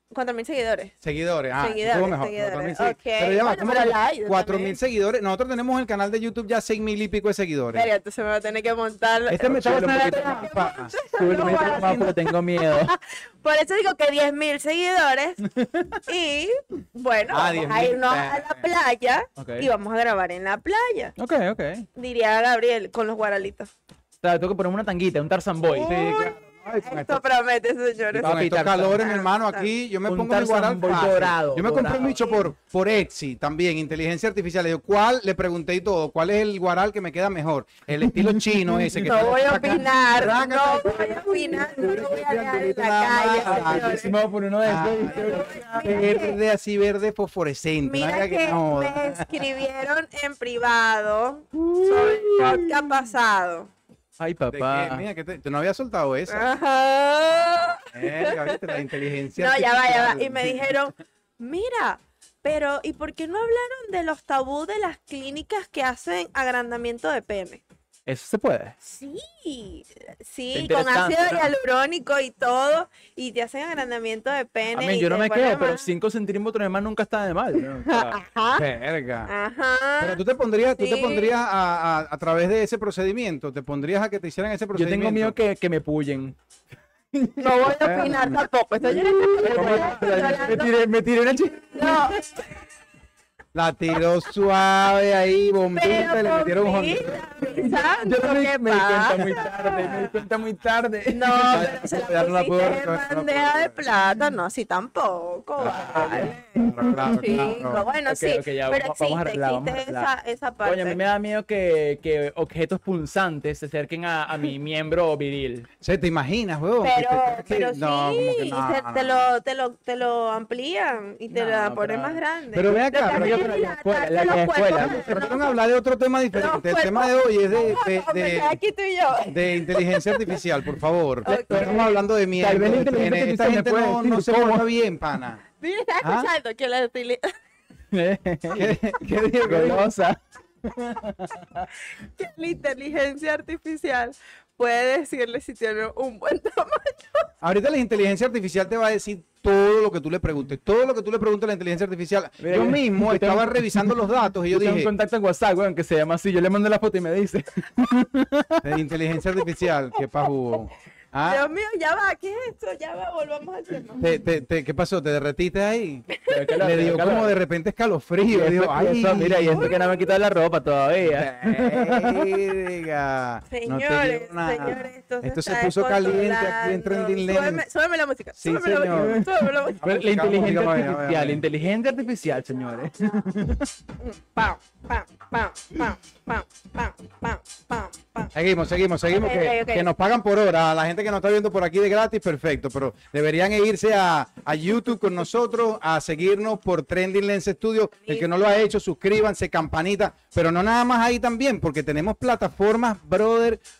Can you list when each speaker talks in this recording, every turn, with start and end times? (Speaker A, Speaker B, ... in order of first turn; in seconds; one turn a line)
Speaker A: 0.1-0.9
Speaker B: 1.0-7.9
Speaker A: 1.6-4.8
Speaker A: 7.7-15.4
Speaker B: 9.3-12.1
Speaker C: 9.5-10.5
Speaker C: 11.1-12.9
Speaker C: 15.4-16.0
Speaker A: 16.1-21.1
Speaker B: 17.3-18.6
Speaker C: 19.4-19.7
Speaker C: 21.2-21.9
Speaker A: 21.9-23.7
Speaker C: 24.2-25.9
Speaker A: 25.7-29.7
Speaker B: 25.8-27.2
Speaker C: 28.1-29.0
Speaker B: 28.2-44.1
Speaker C: 30.1-32.2
Speaker C: 38.0-39.0
Speaker A: 39.0-44.1
Speaker C: 43.4-46.0
Speaker B: 44.6-49.4
Speaker A: 45.1-46.4
Speaker A: 47.8-53.7
Speaker C: 51.5-52.8
Speaker C: 54.2-55.0
Speaker B: 54.5-56.5
Speaker A: 56.3-58.8
Speaker B: 57.9-60.6
Speaker A: 59.4-67.6
Speaker C: 68.1-68.8
Speaker A: 68.8-75.9
Speaker C: 70.5-71.5
Speaker C: 74.7-78.2
Speaker A: 77.9-78.7
Speaker B: 78.5-79.3
Speaker A: 79.3-80.2
Speaker B: 80.0-85.3
Speaker A: 80.8-81.3
Speaker C: 84.8-86.4
Speaker C: 87.1-88.2
Speaker A: 87.4-90.7
Speaker B: 87.8-88.5
Speaker C: 88.9-92.2
Speaker B: 89.6-89.8
Speaker A: 91.8-92.4
Speaker B: 93.5-97.3
Speaker A: 95.8-100.1
Speaker C: 97.4-101.7
Speaker A: 101.1-111.0
Speaker B: 101.5-103.8
Speaker C: 105.6-110.1
Speaker B: 106.6-107.8
Speaker C: 110.6-115.7
Speaker B: 115.8-119.3
Speaker A: 116.8-125.6
Speaker C: 121.3-122.2
Speaker B: 122.5-123.5
Speaker C: 123.1-125.0
Speaker B: 124.8-128.6
Speaker A: 126.3-130.4
Speaker B: 129.3-135.4
Speaker A: 131.2-131.9
Speaker C: 131.3-131.8
Speaker C: 132.4-134.6
Speaker A: 135.6-137.4
Speaker B: 136.0-136.3
Speaker C: 137.9-138.8
Speaker B: 138.5-139.9
Speaker C: 139.4-141.7
Speaker A: 142.0-147.3
Speaker B: 147.4-154.9
Speaker C: 152.4-158.7
Speaker B: 158.6-161.4
Speaker A: 161.2-164.0
Speaker B: 164.0-169.7
Speaker C: 166.3-167.3
Speaker C: 168.3-172.2
Speaker A: 169.5-170.0
Speaker B: 171.1-177.6
Speaker A: 173.5-179.8
Speaker B: 178.4-179.2
Speaker C: 179.0-183.7
Speaker B: 179.8-181.4
Speaker A: 184.0-188.3
Speaker B: 188.3-203.6
Speaker A: 189.1-189.9